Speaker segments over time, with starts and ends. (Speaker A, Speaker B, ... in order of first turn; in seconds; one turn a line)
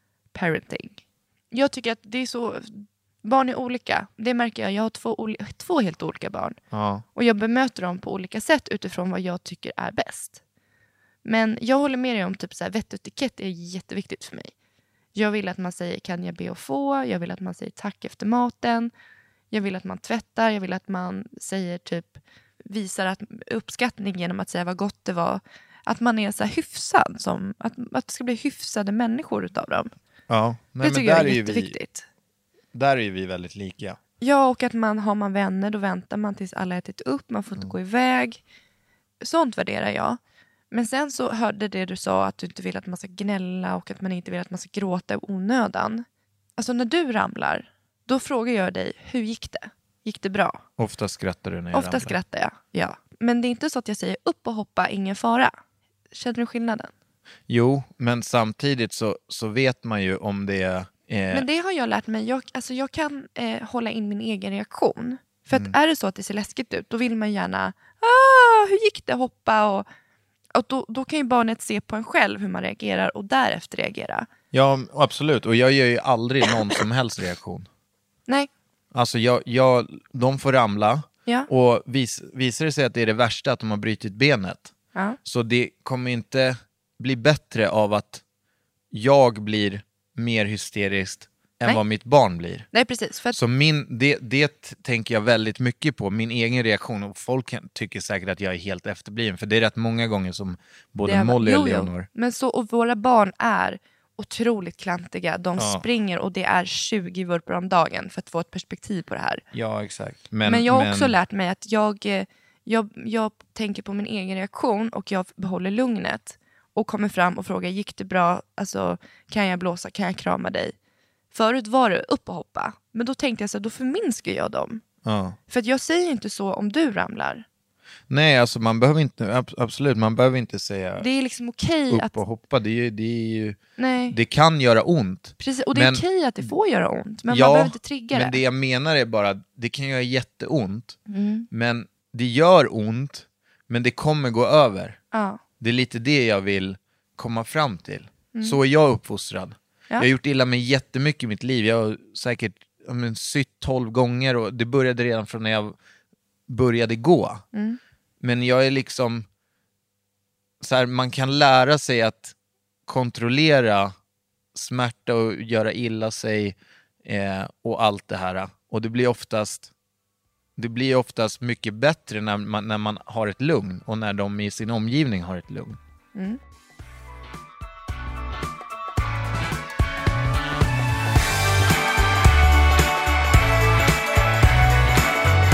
Speaker A: 0.3-6.6
Speaker B: 6.7-7.0
Speaker A: 7.1-10.4
Speaker A: 11.2-14.5
Speaker A: 15.1-18.9
Speaker A: 19.5-29.9
Speaker B: 30.3-31.8
Speaker A: 30.8-32.0
Speaker B: 32.7-34.0
Speaker A: 34.2-38.4
Speaker A: 39.2-40.2
Speaker A: 40.7-46.0
Speaker A: 46.6-50.6
Speaker B: 50.8-52.2
Speaker A: 51.7-55.5
Speaker A: 56.1-56.9
Speaker B: 57.5-61.5
Speaker A: 61.3-69.8
Speaker A: 70.5-74.3
Speaker B: 74.5-77.7
Speaker B: 78.9-84.7
Speaker B: 85.2-88.2
Speaker B: 88.9-92.7
Speaker A: 92.7-93.4
Speaker B: 93.3-102.1
Speaker A: 101.0-109.4
Speaker B: 105.6-105.8
Speaker B: 109.5-111.1
Speaker A: 110.4-120.7
Speaker A: 121.3-124.8
Speaker B: 125.0-125.4
Speaker A: 125.5-127.4
Speaker B: 128.1-131.1
Speaker A: 131.0-132.2
Speaker B: 131.9-133.6
Speaker A: 133.8-134.2
Speaker B: 134.1-136.4
Speaker A: 135.4-138.4
Speaker B: 137.3-141.0
Speaker A: 141.1-141.5
Speaker B: 141.5-145.0
Speaker A: 145.1-145.4
Speaker B: 145.6-155.8
Speaker A: 148.3-148.6
Speaker B: 156.5-157.4
Speaker A: 157.5-157.8
Speaker B: 158.2-159.2
Speaker B: 160.6-162.3
Speaker B: 162.9-163.9
Speaker B: 164.5-169.7
Speaker B: 170.6-175.8